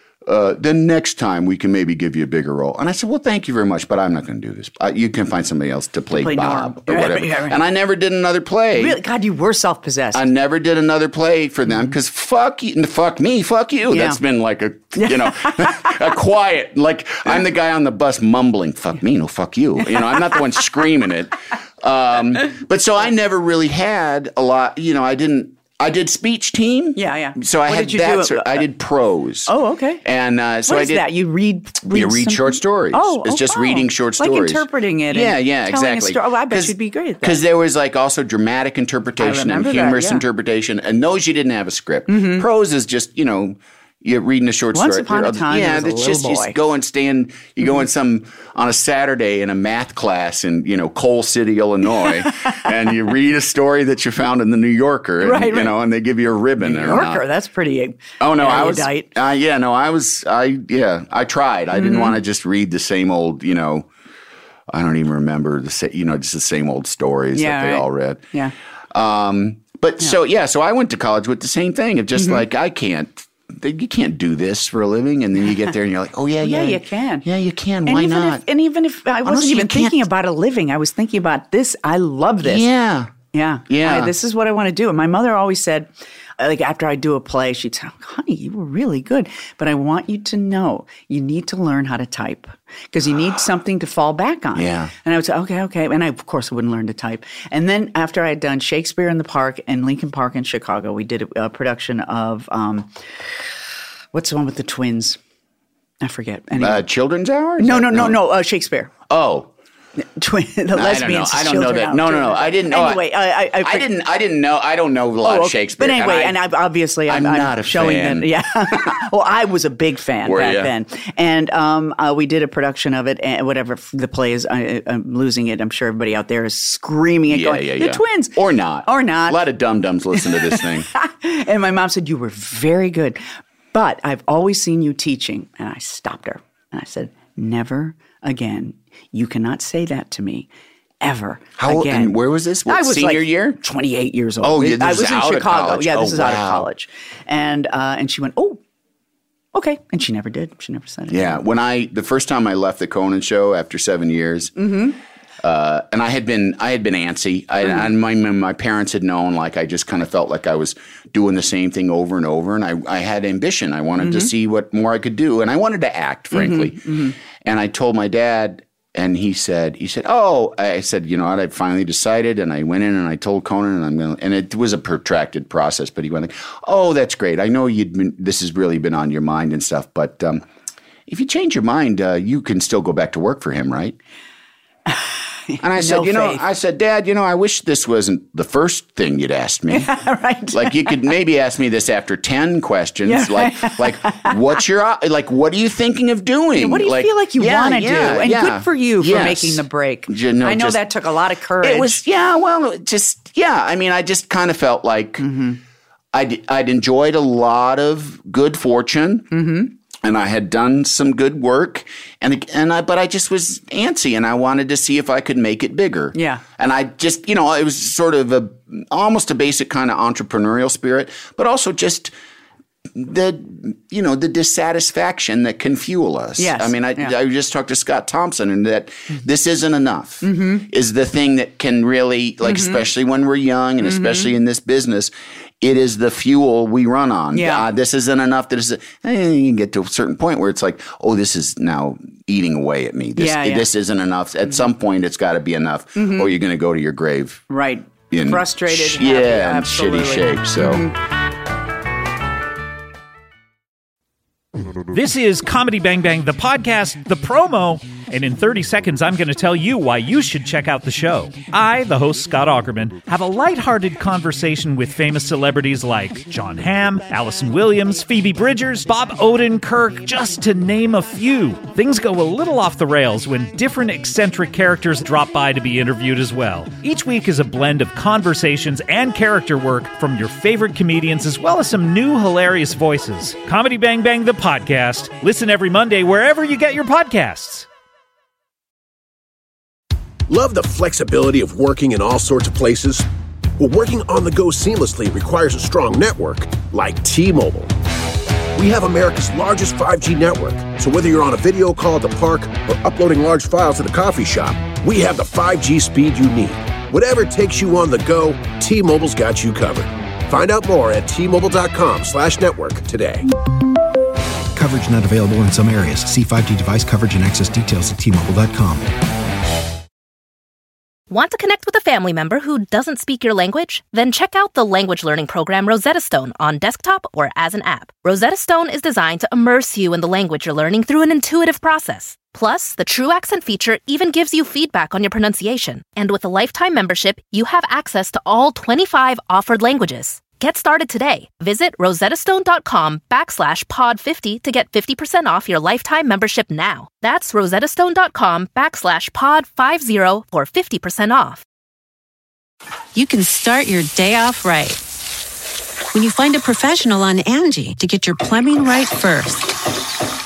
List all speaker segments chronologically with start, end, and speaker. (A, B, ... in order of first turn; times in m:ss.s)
0:00.2-0:09.0 A
0:06.1-0:07.6 B
0:08.7-0:10.2 B
0:10.1-0:29.5 A
0:13.9-0:14.2 B
0:14.9-0:16.0 B
0:27.0-0:28.6 B
0:29.5-0:30.0 B
0:30.0-0:31.0 A
0:30.6-0:37.4 B
0:31.9-0:57.2 A
0:39.2-0:40.2 B
0:42.1-0:42.4 B
0:44.7-0:46.6 B
0:55.2-0:55.7 B
0:56.6-0:59.1 B
0:58.2-1:03.9 A
1:01.7-1:02.2 B
1:04.7-1:08.2 A
1:07.3-1:08.5 B
1:08.9-1:18.4 A
1:12.2-1:12.4 B
1:16.4-1:17.2 B
1:17.8-1:22.6 B
1:19.2-1:20.0 A
1:22.4-1:23.1 A
1:23.3-1:42.9 B
1:23.7-1:24.1 A
1:34.5-1:34.9 A
1:44.1-1:45.2 B
1:46.0-1:46.8 B
1:46.6-1:48.2 A
1:47.6-1:48.9 B
1:49.1-1:49.5 A
1:50.0-1:53.9 B
1:50.7-1:56.4 A
1:55.2-2:09.4 B
1:57.1-1:58.9 A
2:00.2-2:00.7 A
2:07.3-2:10.9 A
2:10.2-2:13.2 B
2:13.7-2:20.5 B
2:21.0-2:28.6 B
2:21.6-2:23.6 A
2:24.4-2:26.7 A
2:29.5-2:31.4 B
2:31.1-2:34.5 A
2:34.6-2:35.0 B
2:35.4-3:00.4 A
2:44.0-2:44.3 B
2:46.3-2:47.1 B
3:01.1-3:04.0 A
3:04.9-3:06.4 B
3:05.6-3:09.9 A
3:09.7-3:11.0 B
3:10.5-3:20.8 A
3:13.0-3:14.4 B
3:16.6-3:22.0 B
3:21.6-3:25.3 A
3:25.2-3:25.6 B
3:26.1-3:29.3 A
3:29.3-3:29.7 B
3:30.0-3:42.1 A
3:36.1-3:36.4 B
3:42.9-4:07.4 A
3:46.4-3:47.1 B
3:50.2-3:50.7 B
3:52.4-3:52.8 B
3:53.8-3:54.3 B
3:57.3-3:57.6 B
4:03.2-4:03.6 B
4:06.0-4:06.3 B
4:07.5-4:10.9 B
4:08.1-4:10.9 A
4:14.9-4:47.7 C
4:50.3-4:53.0 D
4:53.6-4:57.7 D
4:58.5-5:13.3 D
5:14.5-5:18.9 E
5:21.1-5:51.4 F
5:52.9-5:54.8 G
5:55.9-5:59.6 G